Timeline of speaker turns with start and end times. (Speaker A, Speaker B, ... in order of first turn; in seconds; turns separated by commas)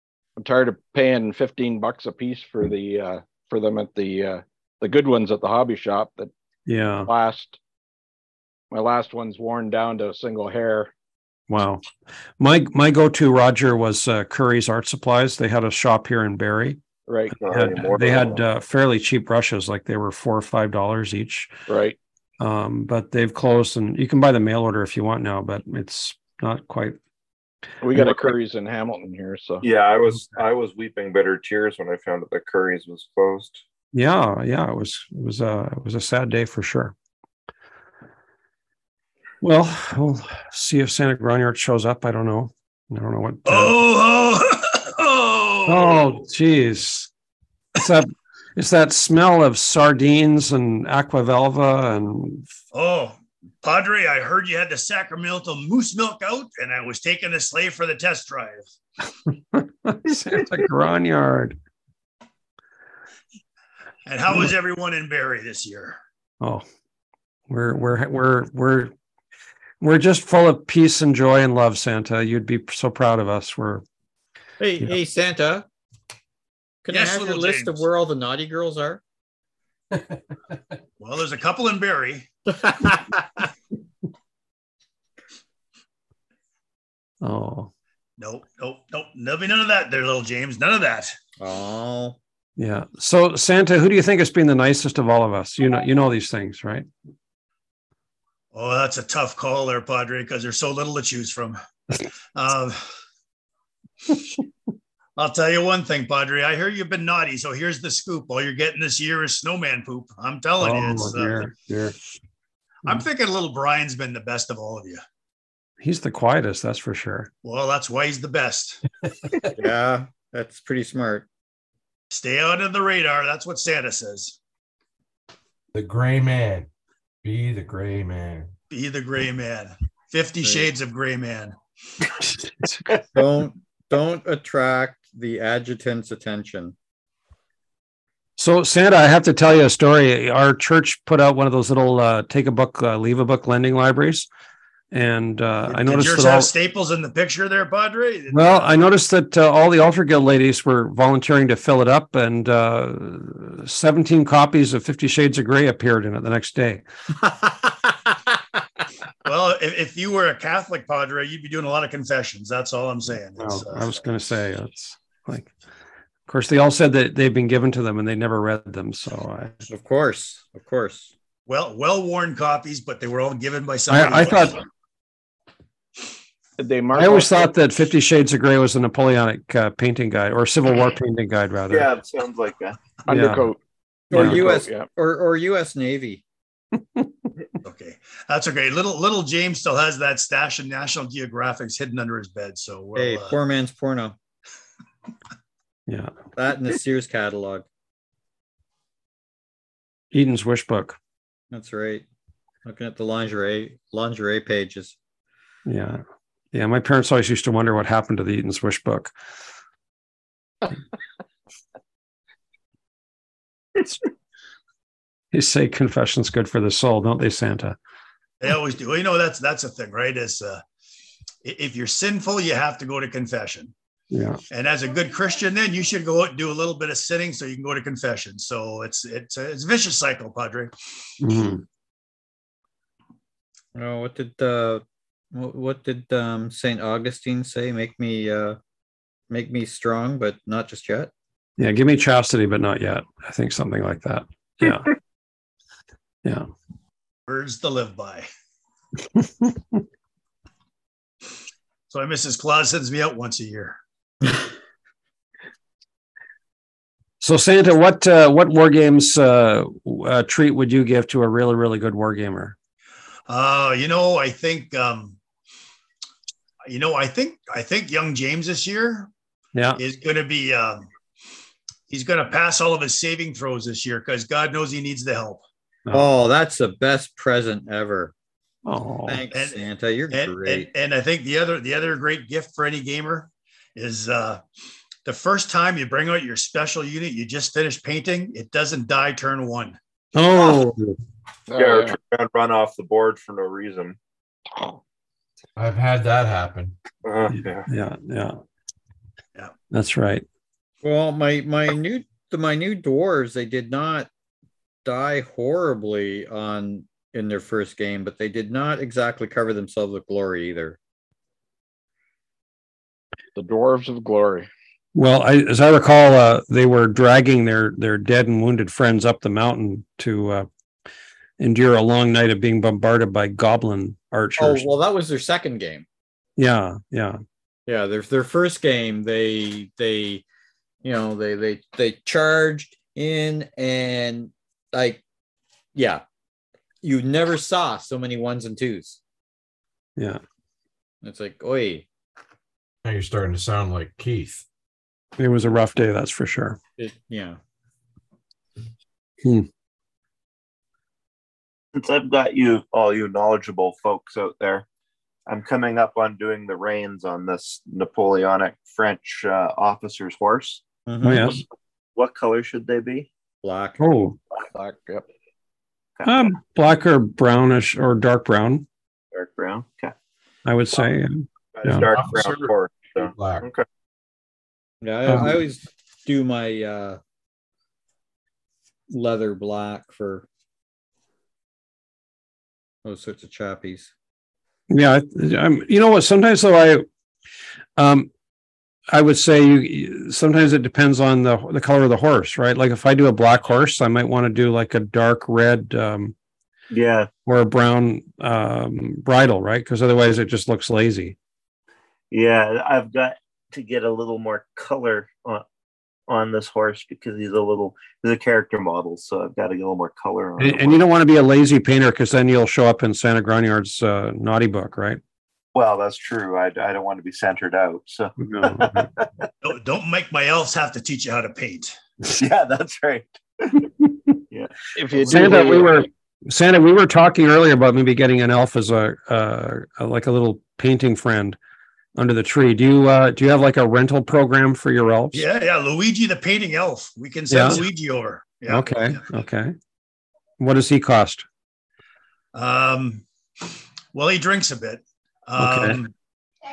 Speaker A: 0.4-6.3, Speaker B: 6.7-7.1, Speaker A: 7.1-7.6, Speaker A: 8.7-10.9, Speaker B: 11.5-11.8, Speaker B: 12.4-16.8, Speaker A: 17.1-17.4, Speaker B: 17.3-21.5, Speaker C: 17.4-18.4, Speaker A: 21.7-22.0, Speaker B: 22.4-27.0, Speaker A: 27.8-29.6, Speaker B: 27.9-28.3, Speaker C: 29.6-33.6, Speaker B: 33.9-37.0, Speaker B: 39.4-43.8, Speaker D: 43.5-46.1, Speaker B: 45.7-47.1, Speaker B: 47.8-52.5, Speaker D: 52.7-58.7, Speaker B: 59.5-61.6, Speaker D: 64.0-66.0, Speaker B: 67.5-68.9, Speaker B: 69.8-73.8, Speaker E: 74.6-75.7, Speaker E: 76.8-79.0, Speaker D: 76.9-77.9, Speaker F: 79.9-80.2, Speaker D: 81.0-82.3, Speaker E: 82.5-83.5, Speaker B: 87.2-87.7, Speaker D: 88.2-91.2, Speaker E: 91.4-92.2, Speaker B: 92.6-96.9, Speaker D: 98.5-101.6, Speaker D: 102.3-102.9, Speaker D: 105.2-111.5, Speaker B: 110.6-112.0, Speaker D: 112.8-115.0, Speaker B: 115.8-117.3, Speaker D: 117.4-118.8, Speaker E: 119.6-121.3, Speaker D: 122.1-124.4, Speaker F: 125.7-126.7, Speaker F: 127.2-128.5, Speaker D: 128.7-131.6, Speaker B: 132.3-132.8, Speaker E: 132.9-136.7, Speaker B: 138.4-144.3, Speaker B: 144.9-146.5, Speaker D: 145.7-148.8, Speaker B: 148.3-156.8, Speaker E: 157.2-158.1, Speaker D: 159.2-164.0, Speaker B: 163.4-165.5, Speaker B: 166.3-169.7, Speaker E: 169.7-171.1, Speaker D: 171.5-174.6, Speaker B: 173.9-174.7, Speaker A: 176.6-177.5, Speaker B: 176.9-181.9, Speaker C: 181.7-182.8, Speaker A: 183.1-183.6, Speaker B: 183.1-183.5, Speaker E: 184.1-186.2, Speaker A: 184.1-184.9, Speaker B: 184.1-184.4, Speaker D: 187.6-193.4, Speaker E: 193.0-194.2, Speaker B: 195.9-196.1, Speaker E: 196.3-197.7, Speaker B: 200.1-201.0, Speaker E: 201.5-202.1, Speaker E: 202.7-205.0, Speaker B: 205.7-206.0, Speaker B: 206.5-209.1, Speaker B: 215.3-217.8, Speaker D: 218.4-220.6, Speaker D: 221.4-223.7, Speaker B: 224.1-224.4, Speaker D: 224.5-230.7, Speaker B: 231.2-231.6, Speaker E: 233.8-238.6, Speaker E: 239.3-241.1, Speaker B: 241.6-244.9, Speaker D: 247.3-248.3, Speaker B: 249.2-249.5, Speaker D: 251.9-253.8, Speaker B: 257.2-262.6, Speaker D: 263.3-265.2, Speaker D: 266.6-269.1, Speaker B: 269.6-269.8, Speaker D: 269.8-270.9, Speaker D: 271.9-275.4, Speaker E: 275.9-278.1, Speaker B: 278.6-279.2, Speaker E: 279.1-280.7, Speaker D: 279.3-284.4, Speaker D: 285.1-289.8, Speaker B: 290.1-291.0, Speaker A: 291.5-291.9, Speaker C: 291.6-294.0, Speaker F: 295.6-296.8, Speaker C: 297.0-297.7, Speaker B: 297.7-298.4, Speaker B: 299.7-300.3, Speaker E: 300.8-304.1, Speaker E: 304.9-310.8, Speaker A: 313.4-314.5, Speaker B: 314.9-320.5, Speaker B: 321.4-324.7, Speaker E: 324.4-325.9, Speaker B: 326.4-327.2, Speaker E: 327.7-330.2, Speaker E: 330.8-335.0, Speaker E: 335.8-336.0, Speaker E: 336.8-339.0, Speaker E: 341.0-341.9, Speaker F: 342.8-344.4, Speaker B: 345.2-346.6, Speaker E: 346.8-347.4, Speaker B: 349.2-349.5, Speaker C: 351.7-354.7, Speaker C: 355.3-360.6, Speaker E: 360.9-361.4, Speaker B: 361.0-361.4, Speaker C: 361.9-363.1, Speaker E: 363.4-363.8, Speaker B: 363.8-364.2, Speaker A: 364.5-365.1, Speaker B: 366.1-368.7, Speaker C: 369.1-369.9, Speaker B: 370.4-371.9, Speaker C: 371.5-373.6, Speaker F: 371.9-373.5, Speaker E: 374.8-377.0, Speaker B: 375.1-375.4, Speaker E: 378.9-380.3, Speaker E: 382.8-383.9, Speaker B: 384.7-386.9, Speaker B: 387.8-388.1, Speaker B: 388.9-396.1, Speaker C: 396.7-397.1, Speaker B: 397.3-401.2, Speaker C: 402.1-405.4, Speaker C: 406.1-410.8, Speaker B: 410.4-415.0, Speaker C: 415.6-419.3, Speaker B: 418.2-418.9, Speaker D: 419.4-421.8, Speaker C: 422.1-423.7, Speaker C: 424.3-425.5, Speaker A: 424.8-425.9, Speaker B: 425.1-431.4, Speaker B: 432.0-435.3, Speaker D: 435.1-439.0, Speaker B: 437.3-437.6, Speaker B: 438.5-439.6, Speaker B: 440.4-441.2, Speaker D: 442.3-443.0, Speaker D: 443.9-445.9, Speaker B: 445.4-445.8